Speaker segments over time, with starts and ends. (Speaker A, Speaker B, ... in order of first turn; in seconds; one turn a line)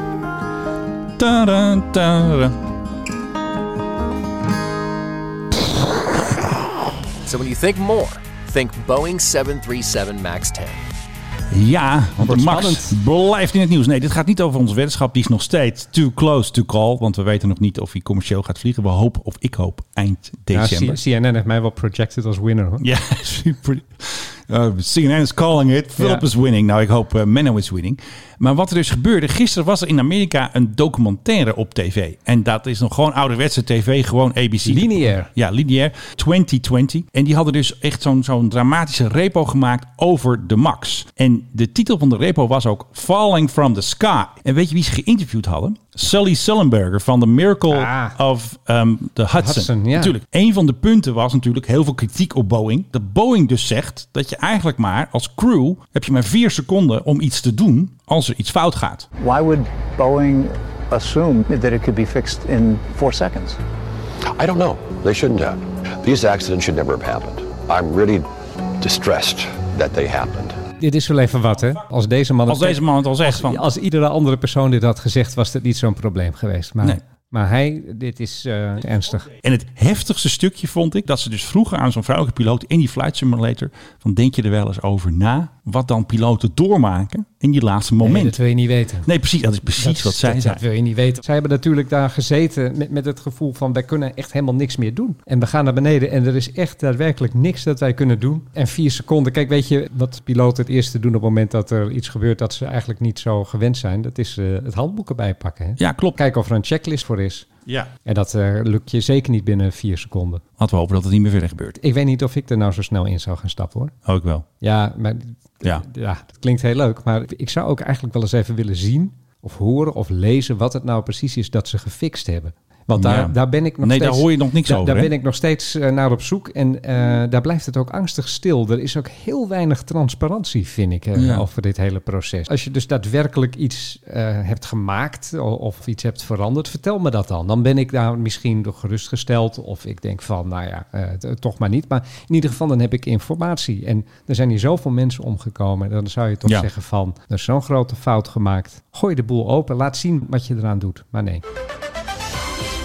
Speaker A: 1.2-2.6
Speaker B: 7.2-10.8
Speaker A: 11.5-21.0
Speaker C: 12.2-12.9
Speaker C: 20.5-22.8
Speaker A: 22.8-59.1
Speaker C: 26.0-26.2
Speaker C: 34.6-35.3
Speaker C: 47.7-48.1
Speaker C: 49.3-50.1
Speaker D: 59.2-63.6
Speaker E: 64.3-68.2
Speaker E: 68.8-70.6
Speaker C: 70.8-79.3
Speaker A: 72.5-73.6
Speaker A: 79.3-88.4
Speaker C: 88.0-89.1
Speaker A: 89.0-90.6
Speaker C: 89.7-107.5
Speaker A: 105.8-106.2
Speaker C: 108.0-110.4
Speaker A: 110.6-111.8
Speaker C: 111.8-113.9
Speaker A: 114.0-114.5
Speaker C: 114.6-151.4
Speaker A: 122.9-125.1
Speaker A: 131.2-131.4